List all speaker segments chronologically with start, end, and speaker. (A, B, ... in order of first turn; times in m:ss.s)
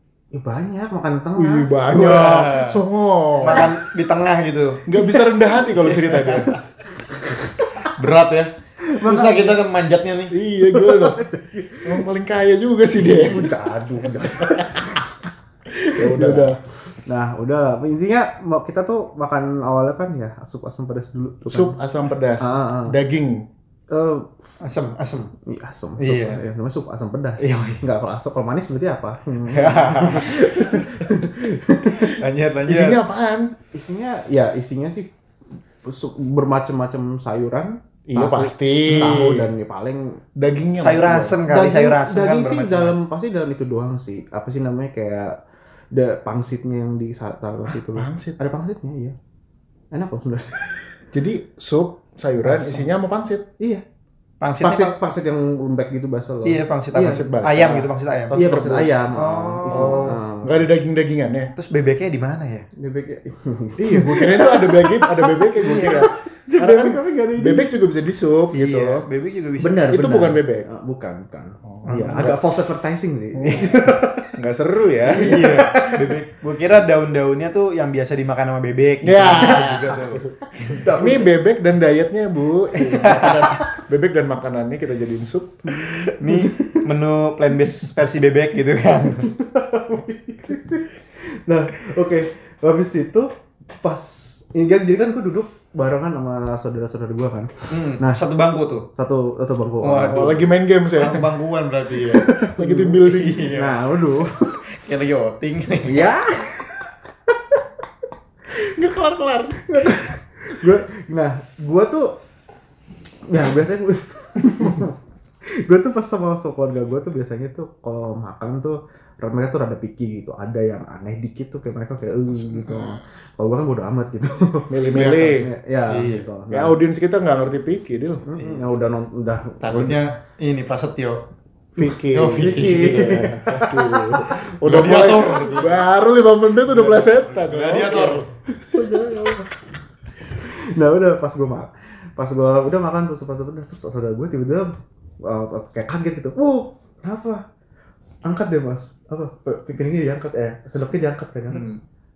0:00.3-0:01.7 A
0:01.4-0:03.7 B
0:01.9-0:02.8 C
0:03.4-0:04.8 C
0:04.9-0:06.5 B
0:05.0-0:05.5 A
0:05.8-0:06.6 C
0:07.8-0:10.3 C
0:08.9-0:09.6 A
0:10.3-0:11.2 B
0:10.6-0:12.1 A
0:11.8-0:13.5 B
0:13.0-0:15.1 A
0:14.0-0:14.9 B
0:15.7-0:16.6 B
0:15.9-0:21.8 A
0:21.5-0:23.5 B
0:22.4-0:23.0 A
0:23.9-0:24.3 A
0:24.6-0:25.3 C
0:25.4-0:32.2 A
0:26.0-0:26.4 C
0:27.4-0:27.8 C
0:29.5-0:30.8 C
0:32.2-0:33.0 C
0:32.7-0:33.5 B
0:33.7-0:35.1 A
0:35.8-0:40.2 A
0:38.1-0:39.5 B
0:38.9-0:39.4 C
0:40.4-0:41.4 B
0:40.8-0:43.0 C
0:41.5-0:45.4 A
0:45.9-0:49.2 A
0:47.7-0:48.4 B
0:49.9-0:50.8 A
0:51.1-0:53.5 B
0:52.4-0:52.9 A
0:54.4-0:54.9 C
0:54.6-0:57.3 A
0:56.4-0:58.4 C
0:57.0-0:59.0 B
0:58.3-1:00.6 A
0:59.2-1:00.2 C
0:59.7-1:01.5 B
1:01.6-1:02.7 C
1:02.8-1:07.7 A
1:03.8-1:09.1 B
1:08.5-1:09.9 C
1:09.6-1:14.3 A
1:09.9-1:10.7 B
1:11.6-1:12.4 B
1:13.3-1:13.8 B
1:14.4-1:15.3 B
1:15.1-1:20.9 C
1:15.2-1:16.1 A
1:19.0-1:20.3 B
1:20.7-1:21.3 A
1:20.9-1:25.9 B
1:22.8-1:23.6 A
1:22.9-1:23.5 C
1:25.7-1:26.8 A
1:26.0-1:29.3 C
1:29.2-1:38.2 A
1:37.7-1:38.9 C
1:39.0-1:40.4 A
1:39.8-1:42.4 C
1:40.1-1:41.3 B
1:42.0-1:44.5 A
1:42.4-1:43.5 B
1:43.0-1:46.1 C
1:45.8-1:47.6 A
1:48.6-1:49.8 B
1:49.6-1:52.1 A
1:53.3-1:55.0 A
1:55.6-2:06.8 A
2:02.3-2:03.0 C
2:04.7-2:05.5 B
2:04.9-2:05.3 C
2:05.9-2:06.3 C
2:06.5-2:08.3 B
2:08.3-2:10.0 A
2:08.4-2:08.6 C
2:09.6-2:11.2 C
2:11.8-2:19.3 B
2:11.8-2:14.2 A
2:12.1-2:13.7 C
2:14.5-2:15.8 C
2:16.9-2:18.3 C
2:18.5-2:19.5 A
2:20.3-2:27.4 A
2:28.2-2:31.7 A
2:31.5-2:31.8 C